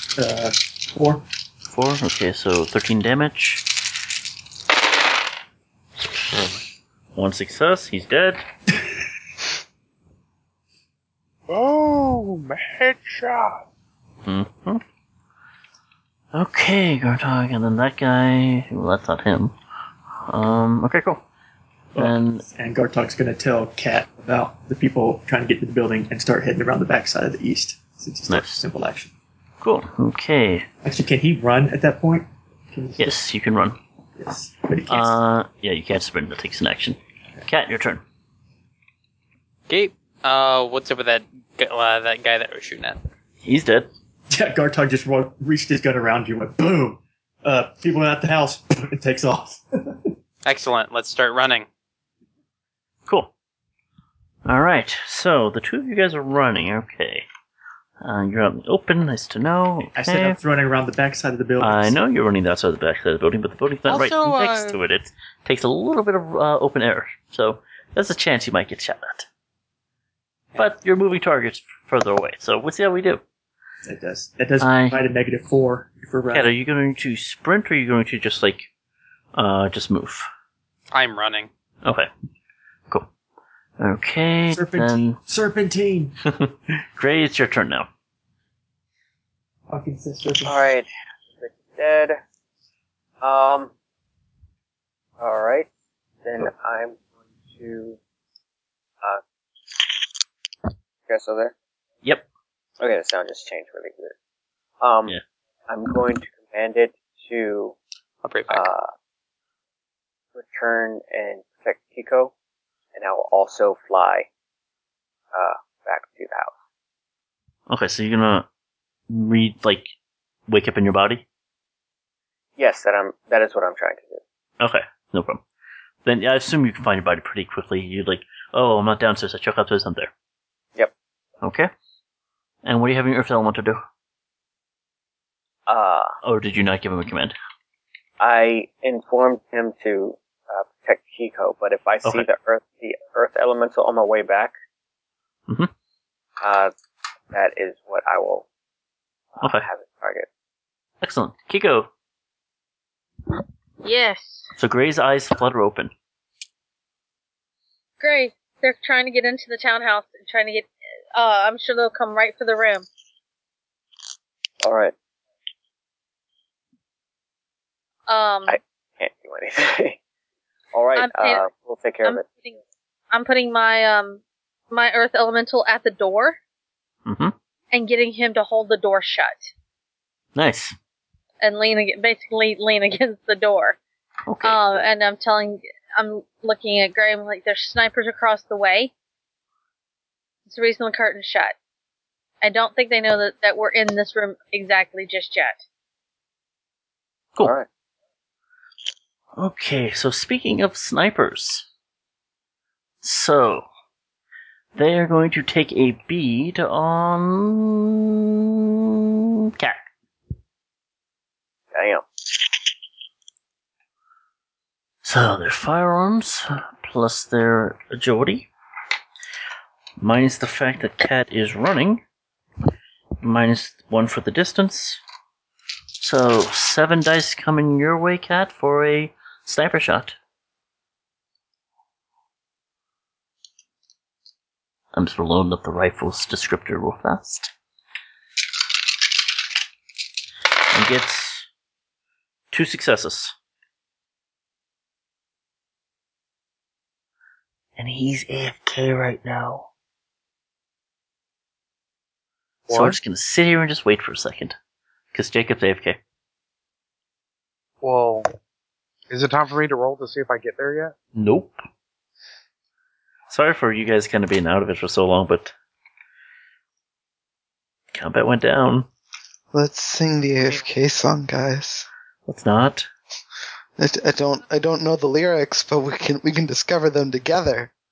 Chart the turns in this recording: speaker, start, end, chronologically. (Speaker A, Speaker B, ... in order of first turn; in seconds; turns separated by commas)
Speaker A: 0.2-1.2, Speaker B: 1.7-3.6, Speaker B: 7.2-8.4, Speaker C: 11.5-13.7, Speaker B: 14.2-14.8, Speaker B: 16.3-19.6, Speaker B: 20.3-21.2, Speaker A: 21.9-29.1, Speaker B: 22.0-22.4, Speaker B: 28.3-28.6, Speaker B: 29.6-30.7, Speaker A: 30.8-33.2, Speaker B: 33.0-33.8, Speaker A: 34.2-35.2, Speaker B: 34.9-38.0, Speaker D: 39.7-43.0, Speaker B: 43.4-43.9, Speaker A: 44.3-50.1, Speaker D: 50.5-51.7, Speaker B: 53.1-53.3, Speaker B: 54.5-57.3, Speaker B: 58.0-60.4, Speaker A: 60.0-62.0, Speaker B: 61.6-69.3, Speaker D: 63.9-64.8, Speaker B: 70.6-73.2, Speaker A: 73.8-76.5, Speaker B: 74.6-75.0, Speaker B: 76.3-78.7, Speaker B: 79.3-80.3, Speaker D: 80.9-81.5, Speaker B: 81.8-82.1, Speaker B: 83.8-85.2, Speaker A: 84.5-86.2, Speaker B: 86.3-87.9, Speaker A: 89.7-90.7, Speaker E: 90.4-90.9, Speaker E: 91.4-92.2, Speaker E: 93.2-93.7, Speaker E: 95.2-95.7, Speaker E: 96.2-97.0, Speaker E: 97.5-98.0, Speaker E: 101.1-101.5, Speaker E: 102.8-104.2, Speaker E: 104.8-105.2, Speaker E: 105.7-107.8, Speaker D: 108.2-108.7, Speaker E: 108.5-108.9, Speaker E: 110.3-112.3, Speaker E: 113.0-114.3, Speaker E: 115.3-116.5, Speaker B: 117.7-118.5, Speaker B: 119.1-119.9, Speaker B: 120.5-121.2, Speaker E: 122.6-124.2, Speaker B: 124.6-125.4, Speaker B: 126.0-130.1, Speaker B: 131.4-131.7, Speaker B: 132.6-133.8, Speaker E: 135.7-136.2, Speaker B: 136.2-137.3, Speaker E: 138.2-144.5, Speaker E: 146.4-146.7, Speaker E: 147.3-148.5, Speaker E: 149.3-150.3, Speaker B: 149.4-149.7, Speaker B: 151.0-151.9, Speaker F: 153.8-154.5, Speaker B: 154.6-155.9, Speaker F: 158.0-162.9, Speaker E: 164.6-164.9, Speaker F: 168.1-168.6, Speaker E: 168.5-170.0, Speaker E: 170.7-172.2, Speaker F: 171.0-171.4, Speaker F: 172.0-172.6, Speaker F: 173.1-176.4, Speaker B: 177.1-177.3, Speaker F: 177.7-179.5, Speaker B: 180.3-180.8, Speaker F: 181.4-183.8, Speaker B: 184.3-184.6, Speaker F: 184.4-188.9, Speaker F: 190.5-191.6, Speaker F: 192.4-195.6, Speaker E: 197.4-197.7, Speaker B: 199.3-201.7, Speaker B: 203.0-203.7, Speaker B: 204.7-208.2, Speaker B: 209.6-209.8, Speaker E: 211.7-212.0, Speaker B: 215.0-218.5, Speaker B: 220.0-222.0, Speaker B: 223.2-225.0, Speaker B: 226.0-230.2, Speaker B: 234.9-237.5, Speaker B: 240.7-241.5, Speaker B: 242.5-243.3, Speaker B: 247.8-249.7, Speaker C: 252.7-253.0, Speaker B: 252.7-254.6, Speaker B: 255.1-256.0, Speaker C: 257.8-258.3, Speaker C: 259.1-260.9, Speaker B: 261.1-261.6, Speaker B: 263.3-265.5, Speaker B: 267.9-268.9, Speaker G: 269.5-271.9, Speaker C: 270.4-270.7, Speaker B: 272.3-272.9, Speaker G: 273.8-277.7